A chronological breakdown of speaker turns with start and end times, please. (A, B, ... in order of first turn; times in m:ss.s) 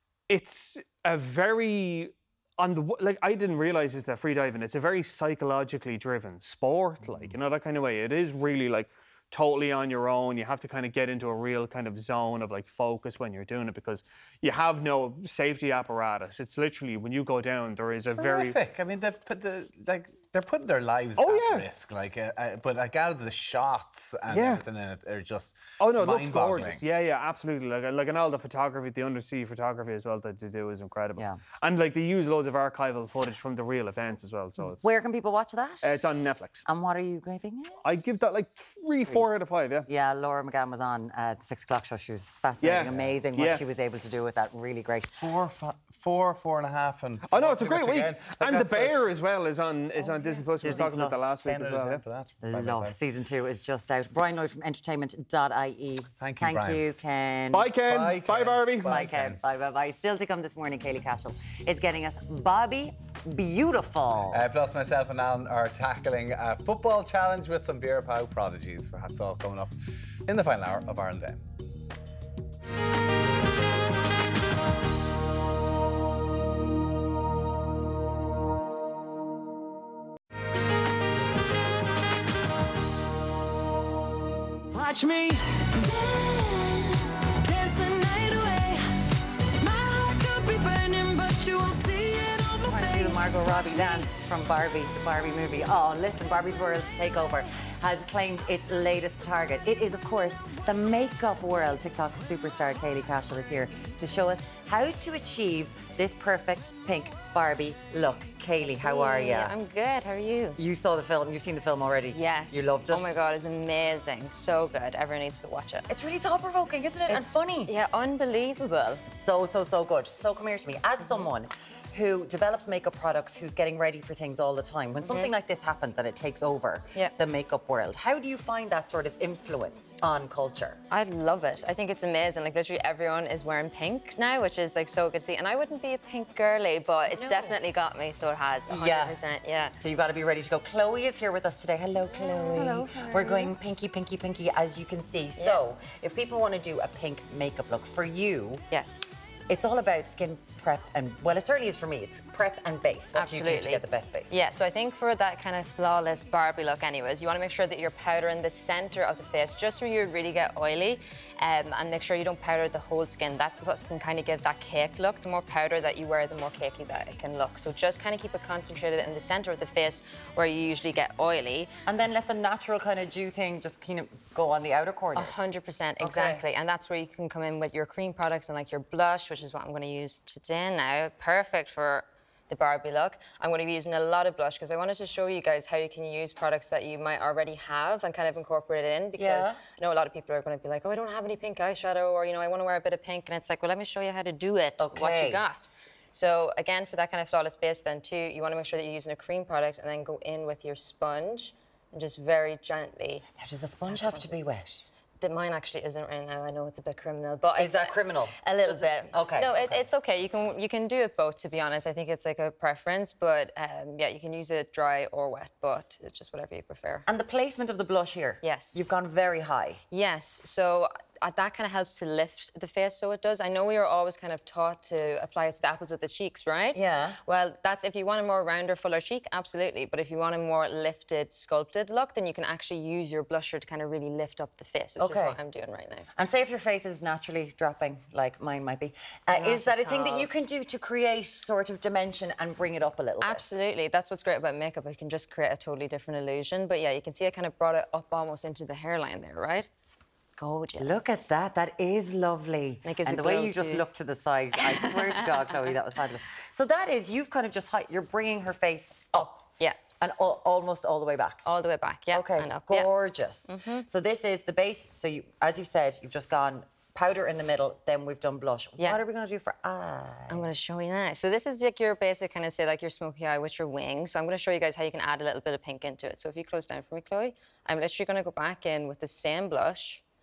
0:00.3-0:18.6 A
0:18.1-0:26.8 B
0:21.2-0:21.7 A
0:24.3-0:24.6 A
0:25.8-0:34.8 A
0:31.2-0:31.4 C
0:34.8-0:37.8 C
0:35.8-0:36.6 A
0:37.8-0:39.9 A
0:39.8-0:45.2 C
0:42.6-0:43.6 A
0:45.2-0:49.1 B
0:47.3-0:52.0 A
0:50.6-0:51.3 C
0:51.4-0:53.0 B
0:52.4-0:57.7 C
0:56.2-0:56.8 B
0:57.5-0:59.2 A
0:57.8-0:59.4 B
0:58.8-1:04.4 C
1:04.3-1:09.8 B
1:10.3-1:11.4 B
1:24.7-1:28.8 D
1:29.6-1:34.1 D
1:32.7-1:49.5 C
1:48.8-1:50.6 E
1:50.6-1:53.2 C
1:52.1-1:55.9 E
1:55.9-1:57.7 C
1:57.1-1:59.0 E
1:59.1-2:10.8 C
2:01.0-2:01.3 E
2:10.9-2:19.8 E
2:17.2-2:17.6 C
2:18.7-2:19.2 C
2:19.8-2:28.6 C
2:22.1-2:23.5 E
2:25.4-2:25.7 E
2:28.7-2:29.1 E
2:29.5-2:34.4 C
2:33.2-2:51.7 E
2:51.9-2:55.4 C
2:55.2-3:23.2 E
2:56.0-2:56.4 C
3:09.2-3:09.6 C
3:14.8-3:15.4 C
3:23.4-3:24.9 C
3:23.9-3:24.4 E
3:25.2-3:37.1 E
3:27.6-3:29.8 C
3:37.1-3:39.8 C
3:38.4-3:38.9 E
3:39.9-3:56.1 E
3:46.7-3:47.2 C
3:55.0-3:55.4 C
3:56.2-4:03.6 C
3:59.3-4:00.3 E
4:03.2-4:09.7 E
4:10.4-4:11.0 E
4:10.8-4:19.4 C
4:12.8-4:13.9 E
4:14.6-4:15.6 E
4:19.2-4:19.8 E
4:20.0-4:21.4 C
4:21.4-4:22.9 E
4:22.1-4:30.4 C
4:23.5-4:23.9 E
4:30.3-4:40.0 E